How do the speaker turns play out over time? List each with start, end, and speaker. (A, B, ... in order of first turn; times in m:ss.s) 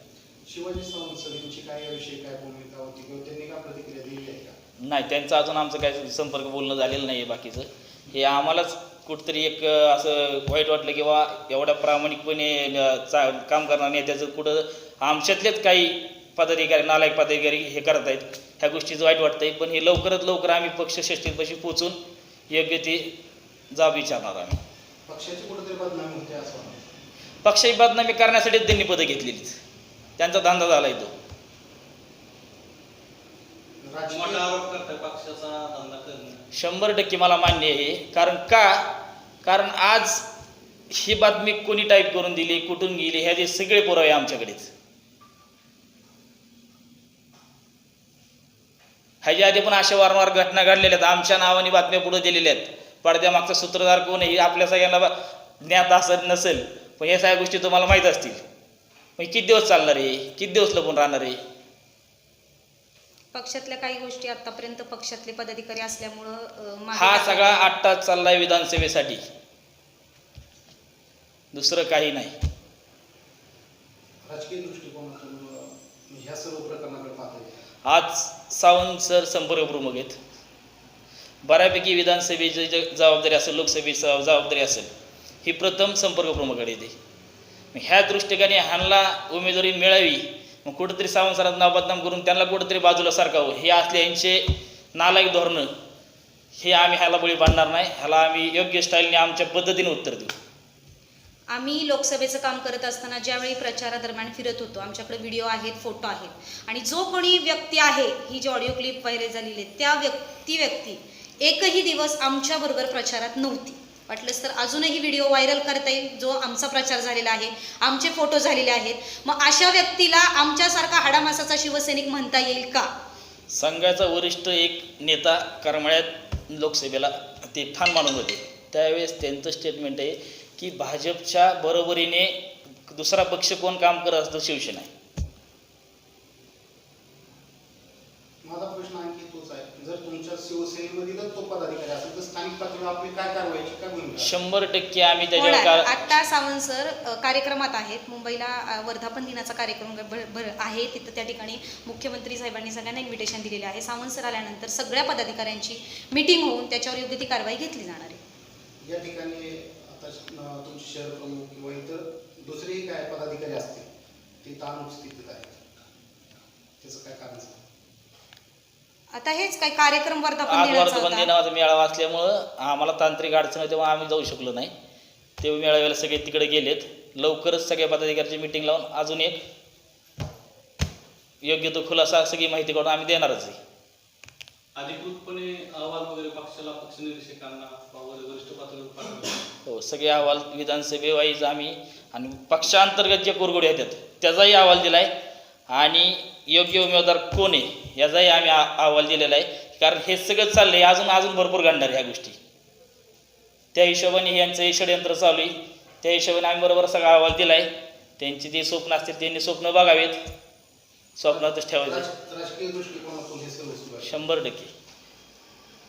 0:00.5-0:04.6 A
0:04.8-0:22.0 B
0:22.5-0:23.1 B
0:23.7-0:24.6 B
0:25.1-0:26.8 A
0:27.4-0:29.5 B
0:30.2-0:31.1 B
0:33.8-0:34.5 A
0:34.1-0:36.4 C
0:36.5-0:38.8 B
0:39.4-0:40.2 B
0:40.9-0:44.7 B
0:49.2-0:58.4 B
0:59.2-1:01.4 B
1:03.3-1:07.7 D
1:06.9-1:09.2 B
1:11.5-1:12.3 B
1:14.2-1:17.6 A
1:17.8-1:20.2 B
1:21.4-1:24.9 B
1:25.4-1:26.9 B
1:27.7-1:34.4 B
1:35.0-1:35.7 B
1:36.6-1:40.3 B
1:41.5-2:02.9 D
2:03.5-2:12.3 B
2:12.9-2:14.9 B
2:18.4-2:24.3 A
2:24.2-2:26.1 B
2:25.4-2:38.2 D
2:38.8-2:43.9 A
2:44.4-2:45.6 A
2:46.8-2:47.6 A
2:49.1-2:51.3 D
2:50.5-2:54.7 B
2:55.4-2:59.4 B
3:01.4-3:03.6 B
3:04.8-3:09.4 C
3:09.6-3:15.1 B
3:15.7-3:22.4 B
3:23.7-3:30.2 B
3:31.2-3:32.1 B
3:31.3-3:34.1 A
3:34.0-3:34.7 B